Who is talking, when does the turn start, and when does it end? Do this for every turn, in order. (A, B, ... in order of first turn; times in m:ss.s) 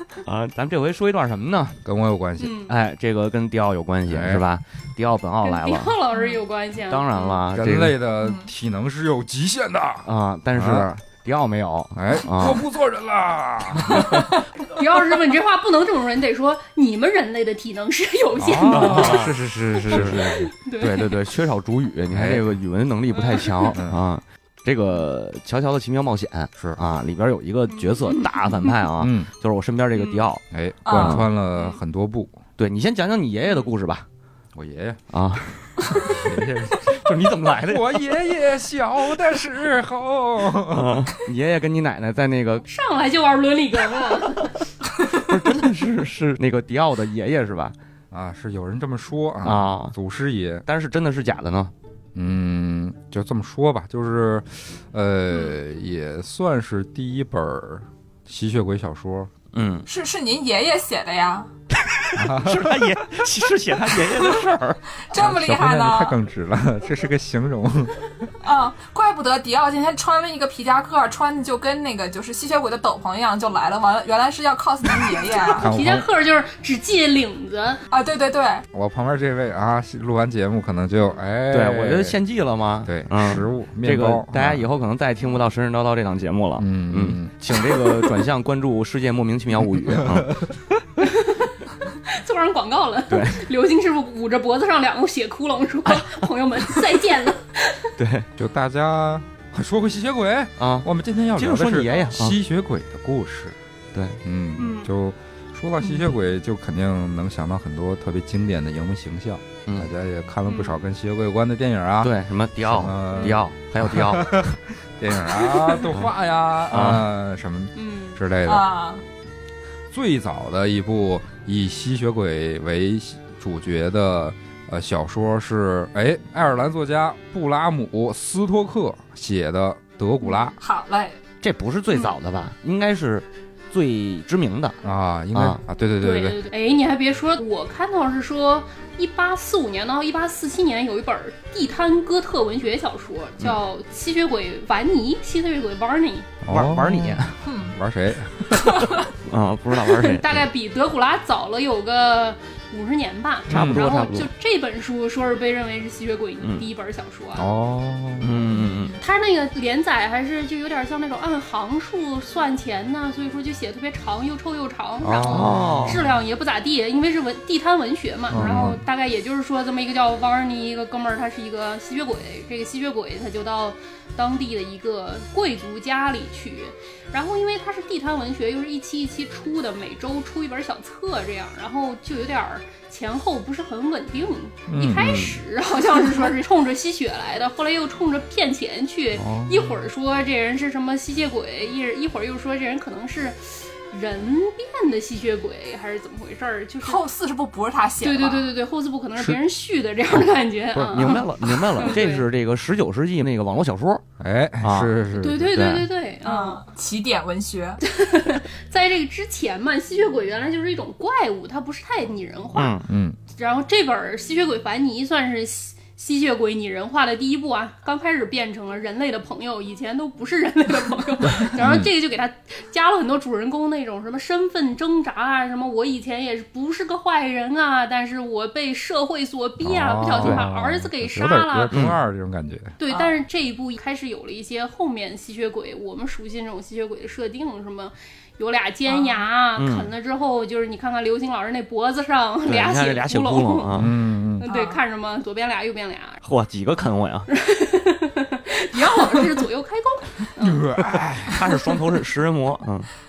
0:00.2-0:01.8 A
0:01.8-0:02.6 B
0:02.4-0:02.7 C
0:02.7-0:05.9 A
0:04.1-0:04.4 B
0:05.4-0:07.4 C
0:06.9-0:08.0 A
0:07.5-0:10.9 B
0:08.2-0:08.5 D
0:10.0-0:12.6 A
0:11.9-0:14.3 B
0:13.8-0:14.4 A
0:14.6-0:19.3 C
0:18.4-0:20.5 B
0:18.7-0:30.4 A
0:19.9-0:21.1 C
0:22.1-0:22.5 B
0:23.2-0:23.8 C
0:23.8-0:24.0 B
0:27.8-0:28.3 C
0:29.0-0:29.3 B
0:30.0-0:30.2 C
0:30.5-0:32.4 B
0:30.8-0:31.2 D
0:31.0-0:31.3 A
0:32.6-0:34.0 A
0:34.6-0:35.0 B
0:35.1-0:38.1 A
0:36.0-0:41.1 B
0:40.7-0:42.6 A
0:42.7-0:44.6 C
0:45.0-0:47.8 A
0:48.1-0:50.6 B
0:49.4-0:49.9 A
0:50.7-0:51.7 A
0:52.2-0:59.3 B
0:59.5-0:59.9 A
0:59.9-1:01.5 D
1:01.8-1:04.8 A
1:02.2-1:03.0 B
1:05.0-1:06.2 D
1:05.1-1:08.3 B
1:08.4-1:15.7 D
1:15.4-1:16.1 B
1:15.6-1:17.8 C
1:17.9-1:18.6 D
1:18.7-1:22.2 B
1:21.5-1:30.3 A
1:22.8-1:24.7 B
1:26.6-1:28.0 B
1:29.6-1:30.6 B
1:31.0-1:31.5 C
1:32.0-1:37.8 C
1:33.1-1:33.5 A
1:35.9-1:36.8 A
1:38.0-1:38.3 A
1:38.4-1:43.6 B
1:40.6-1:42.4 A
1:43.9-1:44.2 A
1:44.2-1:52.2 B
1:44.6-1:44.9 C
1:50.5-1:50.9 C
1:52.0-1:54.5 A
1:52.7-1:58.7 B
1:53.2-1:53.4 C
1:56.7-1:57.0 A
1:57.8-1:58.2 C
1:58.4-1:59.0 D
1:59.9-2:10.6 B
2:10.6-2:11.2 D
2:11.4-2:14.8 A
2:14.8-2:16.4 B
2:15.4-2:15.6 A
2:16.0-2:26.3 C
2:26.4-2:29.1 B
2:26.5-2:27.4 A
2:27.4-2:27.8 D
2:28.5-2:29.1 D
2:29.2-2:30.4 A
2:29.8-2:37.5 C
2:33.5-2:33.9 B
2:33.5-2:34.3 A
2:37.4-2:38.5 B
2:38.2-2:39.0 A
2:39.0-3:17.0 C
2:45.0-2:46.1 B
2:45.3-2:46.0 A
2:48.3-2:48.8 B
2:48.3-2:48.8 A
3:04.7-3:05.2 B
3:04.9-3:05.3 A
3:09.2-3:09.8 B
3:16.8-3:18.5 D
3:18.0-3:22.3 C
3:20.7-3:24.0 A
3:24.2-3:25.6 B
3:24.6-3:24.9 A
3:25.2-3:26.6 C
3:25.5-3:25.9 A
3:26.2-3:27.8 D
3:27.8-3:51.8 C
3:32.5-3:32.9 A
3:32.9-3:33.2 B
3:41.6-3:41.9 B
3:49.6-3:52.8 B
3:51.7-3:52.0 A
3:52.8-4:03.9 C
3:52.9-3:53.2 D
3:58.9-3:59.3 D
3:59.6-3:59.9 A
4:02.5-4:03.9 A
4:03.7-4:04.5 B
4:04.4-4:06.2 C
4:04.4-4:04.8 D
4:06.2-4:07.3 A
4:07.3-4:10.7 C
4:08.8-4:09.4 D
4:10.4-4:11.4 B
4:11.2-4:12.9 A